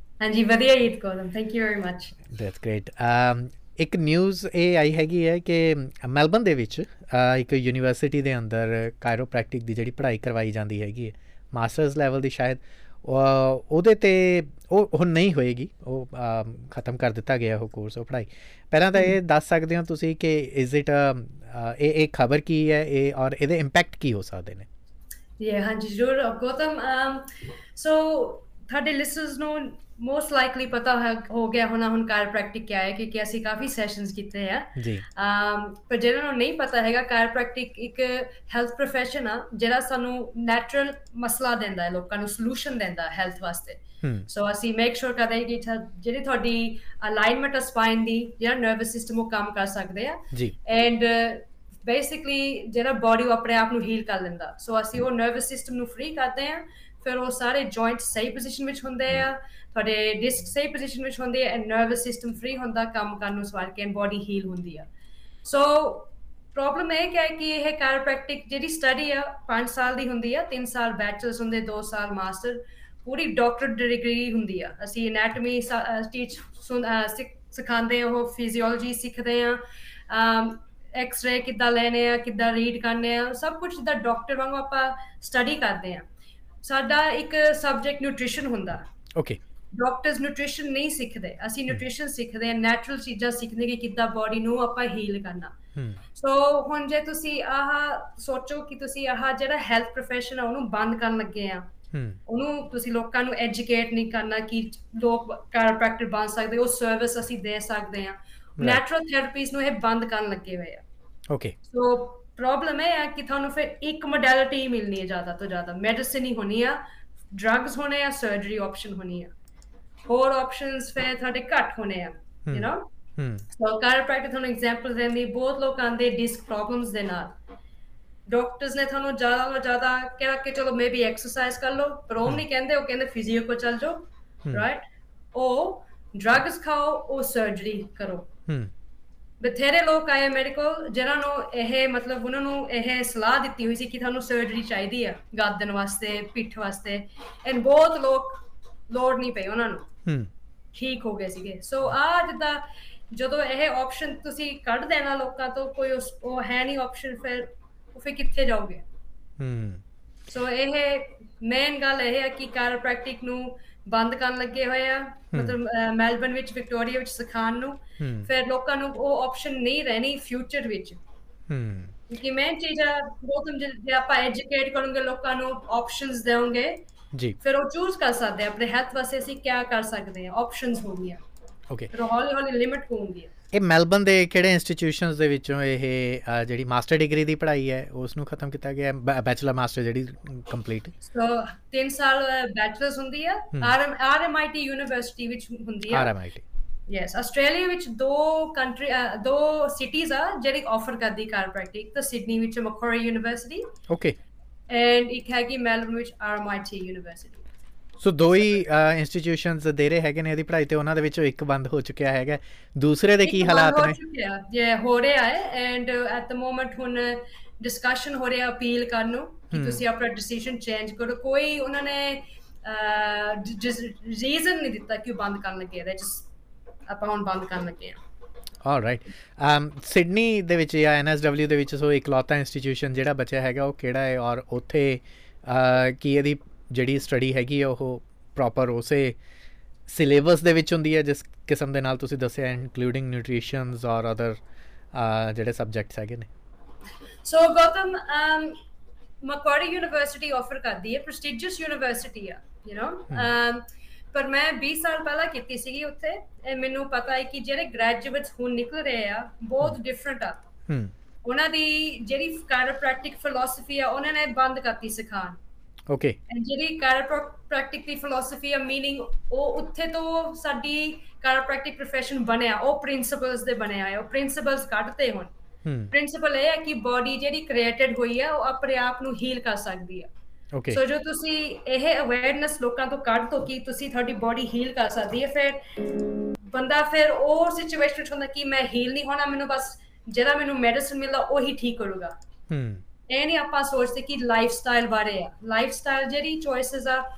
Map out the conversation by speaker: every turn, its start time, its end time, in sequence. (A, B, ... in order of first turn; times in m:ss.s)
0:00.2-0:02.1 A
0:02.3-0:24.7 B
0:25.4-1:04.9 A
0:34.8-0:35.0 B
0:44.0-0:44.3 B
1:05.4-1:26.0 A
1:26.6-1:28.9 A
1:29.1-1:29.4 B
1:29.7-1:35.5 A
1:35.8-1:36.0 B
1:36.1-1:41.7 A
1:41.9-1:42.2 B
1:42.3-1:50.8 A
1:51.3-1:51.5 B
1:51.7-1:56.8 A
1:57.3-1:59.3 A
2:00.0-2:02.8 A
2:02.4-2:03.4 B
2:03.5-2:07.3 A
2:08.3-2:14.8 A
2:15.3-2:18.3 A
2:19.4-2:29.9 A
2:30.0-2:30.3 B
2:30.7-2:38.8 A
2:39.4-2:39.8 B
2:40.3-2:51.0 A
2:48.0-2:48.3 B
2:51.5-2:51.9 B
2:52.1-2:56.8 A
2:57.4-3:01.2 A
3:01.9-3:03.3 A
3:03.5-3:10.9 B
3:11.0-3:16.1 A
3:15.9-3:16.4 B
3:16.9-3:23.6 A
3:23.9-3:24.2 B
3:24.7-3:27.4 A
3:28.0-3:34.0 B
3:33.2-3:46.3 A
3:39.5-3:39.8 B
3:46.9-3:48.0 A
3:48.6-3:59.2 B
3:59.9-4:04.4 B
4:04.9-4:06.3 B
4:07.2-4:08.6 A
4:09.2-4:20.4 A
4:20.7-4:20.9 B
4:21.2-4:25.4 A
4:25.9-4:26.2 B
4:26.3-4:35.3 A
4:35.6-4:35.9 B
4:35.9-4:40.1 A
4:40.5-4:40.8 B
4:40.7-4:45.6 A
4:46.5-4:52.1 A
4:52.5-4:52.8 B
4:53.1-4:57.0 A